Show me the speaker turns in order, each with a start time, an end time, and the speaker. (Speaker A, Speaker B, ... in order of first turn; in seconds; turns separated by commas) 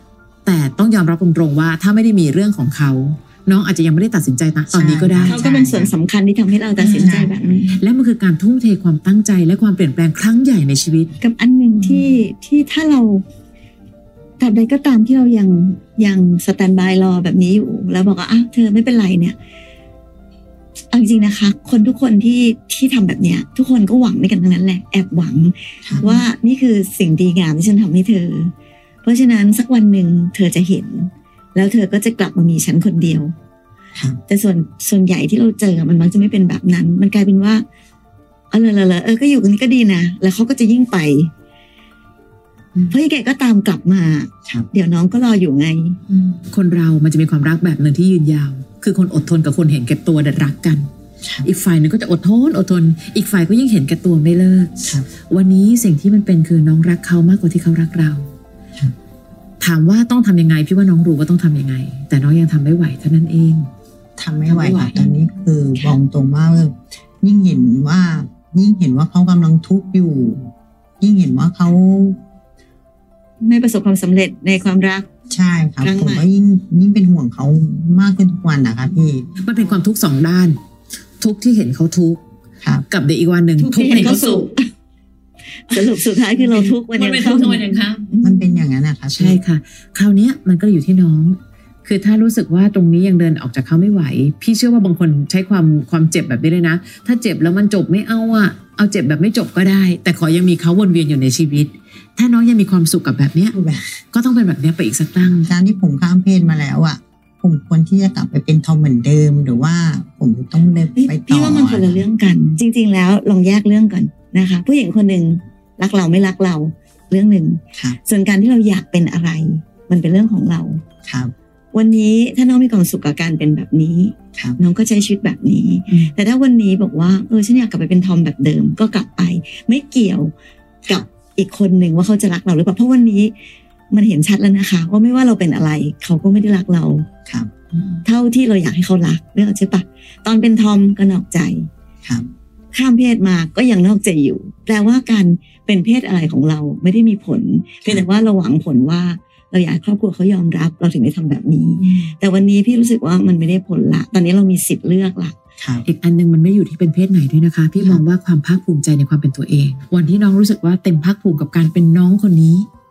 Speaker A: 0.4-5.4, Speaker B: 4.7-5.9, Speaker C: 5.3-7.8, Speaker A: 6.8-11.1, Speaker B: 7.0-7.3, Speaker C: 11.2-13.2, Speaker A: 11.8-12.1, Speaker C: 14.4-19.4, Speaker C: 20.9-28.5, Speaker B: 25.9-26.2, Speaker C: 29.0-33.3, Speaker C: 34.3-37.6, Speaker C: 38.5-41.3, Speaker C: 42.9-46.0, Speaker A: 46.1-50.9, Speaker A: 51.4-54.8, Speaker A: 55.3-58.3, Speaker A: 59.6-63.7, Speaker B: 64.2-72.2, Speaker A: 64.5-65.1, Speaker C: 73.4-75.1, Speaker B: 75.3-79.3, Speaker C: 75.8-76.2, Speaker A: 79.4-80.6, Speaker A: 81.2-82.2, Speaker A: 82.9-84.5, Speaker C: 83.6-84.6, Speaker C: 85.7-88.6, Speaker A: 86.3-88.0, Speaker B: 88.2-89.4, Speaker A: 89.1-103.6, Speaker B: 103.5-103.8, Speaker A: 104.1-105.5, Speaker B: 105.4-112.0, Speaker C: 111.0-120.8, Speaker B: 121.0-121.3, Speaker C: 121.7-130.3, Speaker C: 130.9-133.3, Speaker C: 133.9-137.1, Speaker A: 137.7-138.0, Speaker C: 138.0-141.7, Speaker C: 142.7-155.3, Speaker A: 151.8-152.1, Speaker B: 155.6-155.9, Speaker A: 155.8-162.7